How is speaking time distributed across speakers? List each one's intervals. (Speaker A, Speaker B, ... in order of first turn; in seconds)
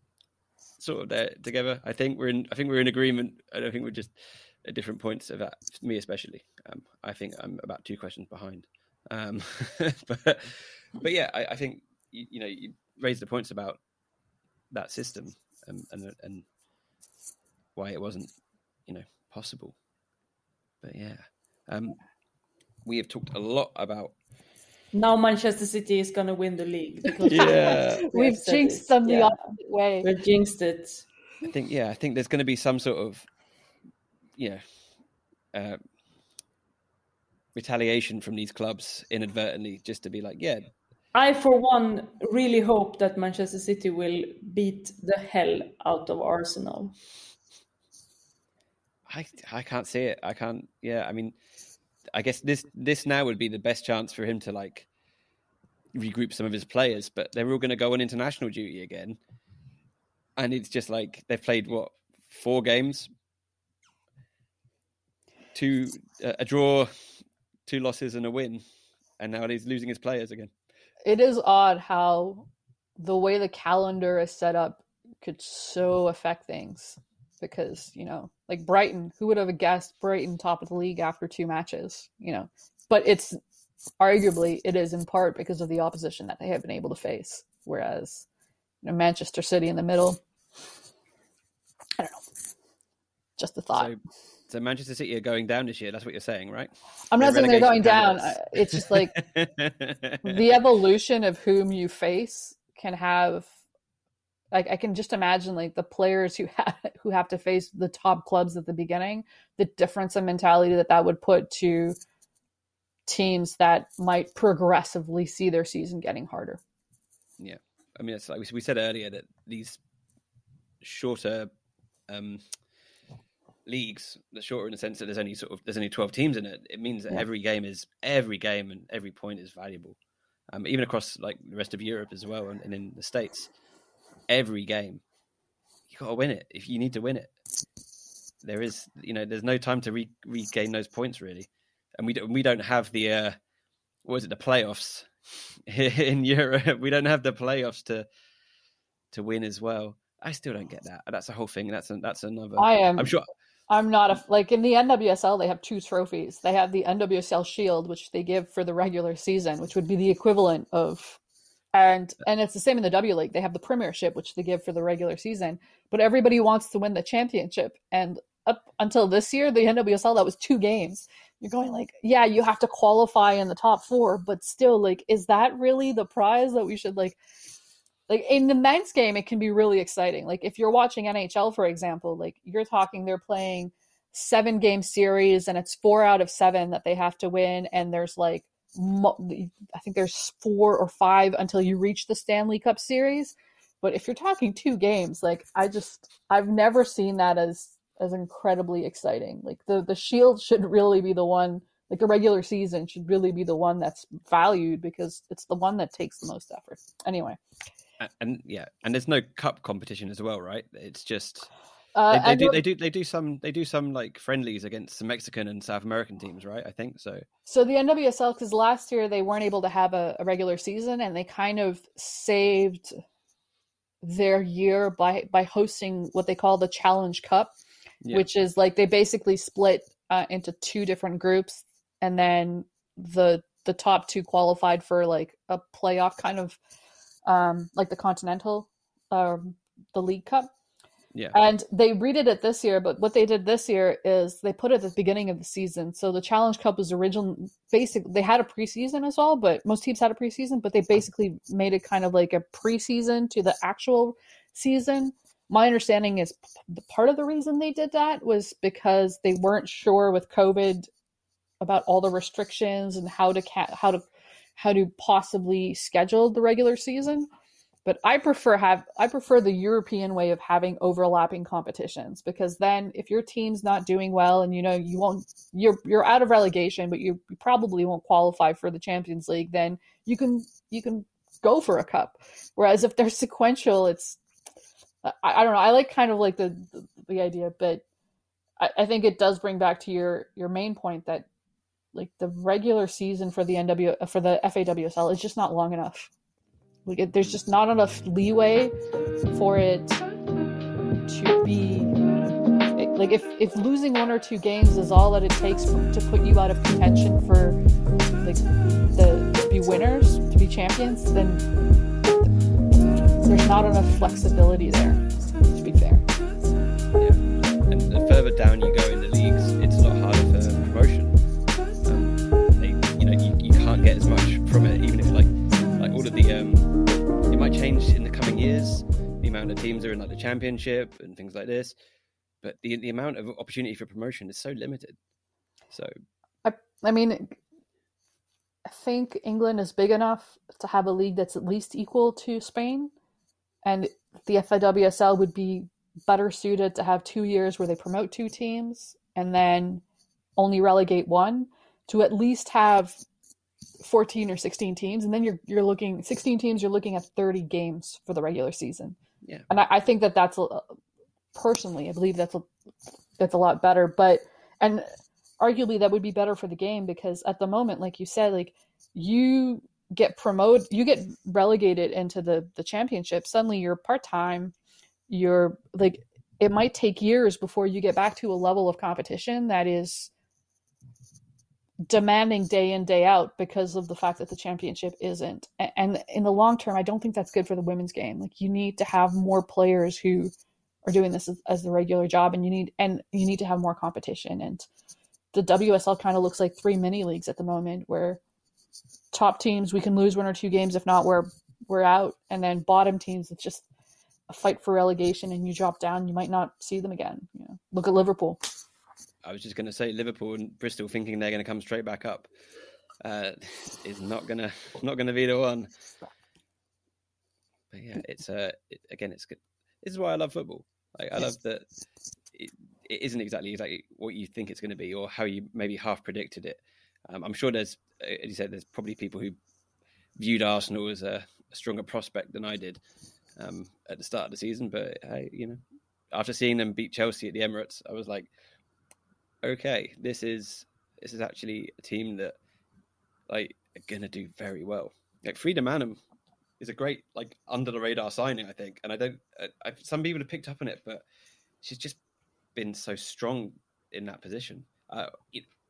Speaker A: 0.8-13.8, 14.7-16.4, 17.8-18.4, 18.9-19.8, 20.8-22.0, 22.9-24.1, 27.2-28.1, 31.4-33.3, 34.4-34.6, 35.5-35.8, 37.5-40.7, 49.1-51.4, 52.1-54.9, 55.9-59.2, 60.4-63.1, 65.5-66.9, 67.7-68.6, 69.2-70.5, 93.7-100.6, 117.4-119.8, 120.8-121.5, 122.1-122.5, 123.7-130.0, 130.5-133.5, 134.3-135.0, 135.9-137.3, 138.4-143.4, 144.1-148.1, 149.1-153.3, 208.0-211.5, 212.1-217.2, 317.0-321.2, 321.8-326.7, 327.3-331.8, 332.4-335.0, 409.2-412.3, 413.0-415.7, 417.7-421.7, 422.3-429.4, 430.2-432.8, 433.4-435.6, 436.1-438.3, 439.4-442.4, 443.3-446.0, 446.6-451.0, 451.6-452.0, 452.6-455.5
Speaker B: 24.9-31.1, 41.1-46.9
Speaker C: 27.2-30.1, 71.0-72.5, 73.0-83.4, 84.0-88.3, 88.8-90.2, 92.0-92.2, 93.4-93.9, 97.1-99.1, 100.2-103.5, 104.5-112.0, 113.1-116.6, 152.6-153.1, 153.7-161.2, 161.7-177.2, 178.1-207.4, 211.9-212.6, 217.5-222.9, 224.0-227.5, 228.1-236.6, 237.2-240.5, 241.3-260.9, 261.6-267.3, 267.9-284.2, 285.0-287.8, 288.6-291.3, 291.9-296.1, 296.9-298.7, 299.3-300.0, 301.1-302.0, 302.8-307.6, 308.2-311.4, 313.2-316.1, 336.4-337.4, 338.7-342.9, 343.6-349.8, 350.4-353.0, 353.8-359.0, 359.5-360.7, 361.3-362.5, 363.2-374.5, 375.1-380.1, 381.9-390.3, 390.9-394.7, 395.3-398.2, 399.1-403.6, 404.3-408.4